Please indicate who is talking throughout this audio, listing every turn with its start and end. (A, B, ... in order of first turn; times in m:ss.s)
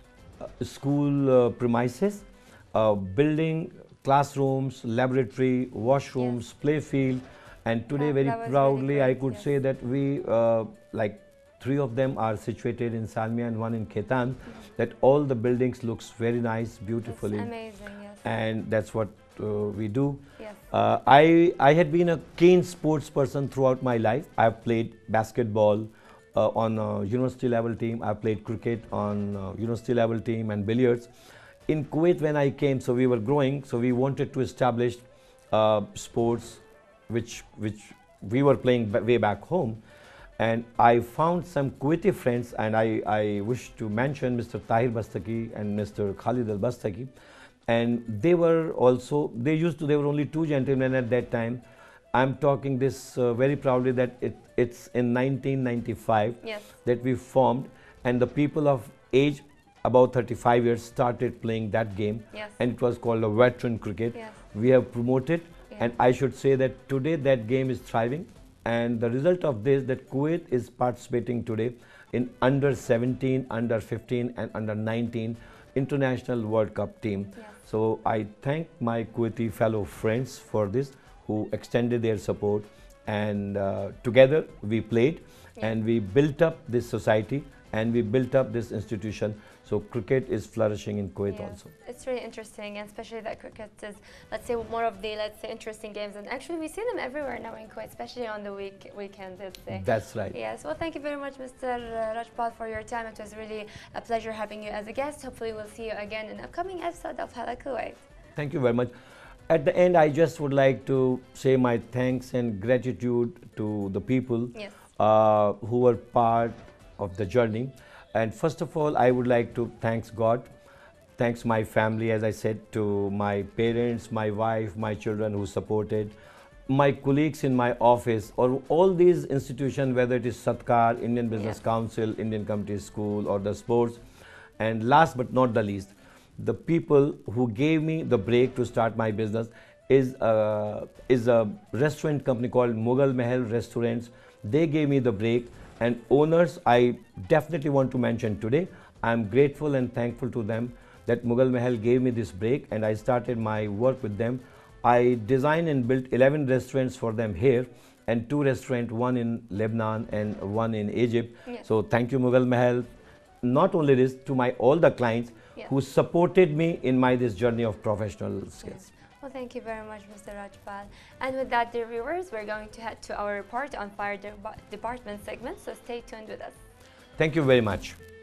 0:00.4-0:17.5 A
0:08.0-0:09.5 B
0:17.1-0:18.2 B
0:18.2-0:31.1 A
0:31.7-0:39.8 A
0:40.4-0:47.1 A
0:47.7-1:31.7 A
1:02.3-1:02.6 B
1:31.3-1:48.1 B
1:39.7-1:40.4 A
1:48.4-1:48.9 A
1:49.5-2:00.5 A
2:01.2-2:06.2 A
2:06.7-2:14.0 A
2:14.6-2:48.9 A
2:48.6-2:56.6 B
2:57.2-2:58.0 A